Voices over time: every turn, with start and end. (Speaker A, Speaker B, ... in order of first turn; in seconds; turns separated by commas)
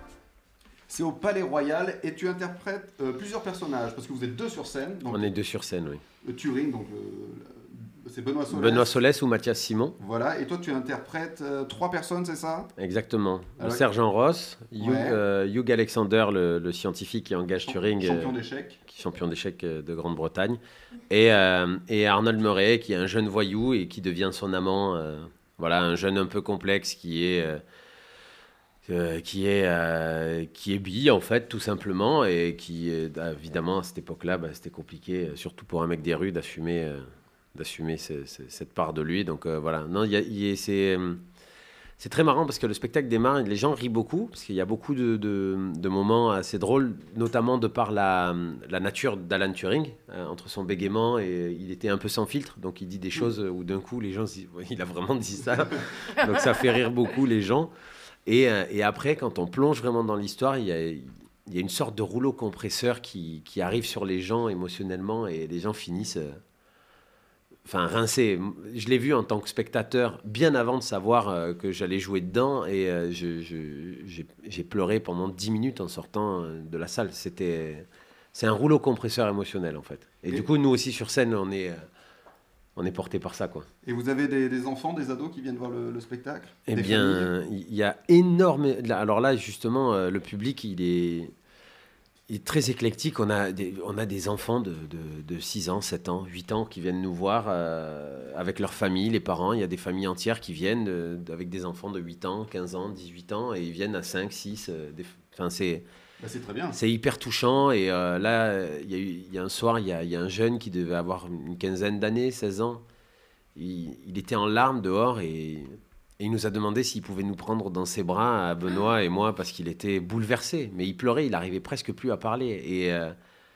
Speaker A: 0.9-5.3, Speaker B: 5.1-6.0, Speaker A: 6.2-8.9, Speaker B: 8.5-10.0, Speaker A: 10.0-12.7, Speaker B: 12.8-20.6, Speaker A: 14.8-15.2, Speaker A: 17.6-18.8, Speaker B: 21.1-27.6, Speaker B: 28.8-41.2, Speaker B: 42.0-57.7, Speaker B: 58.2-66.4, Speaker B: 67.7-81.8, Speaker B: 82.8-83.7, Speaker A: 83.8-87.3, Speaker B: 86.7-91.3, Speaker B: 92.3-105.8, Speaker A: 106.2-106.8, Speaker B: 106.7-112.8, Speaker B: 113.5-123.1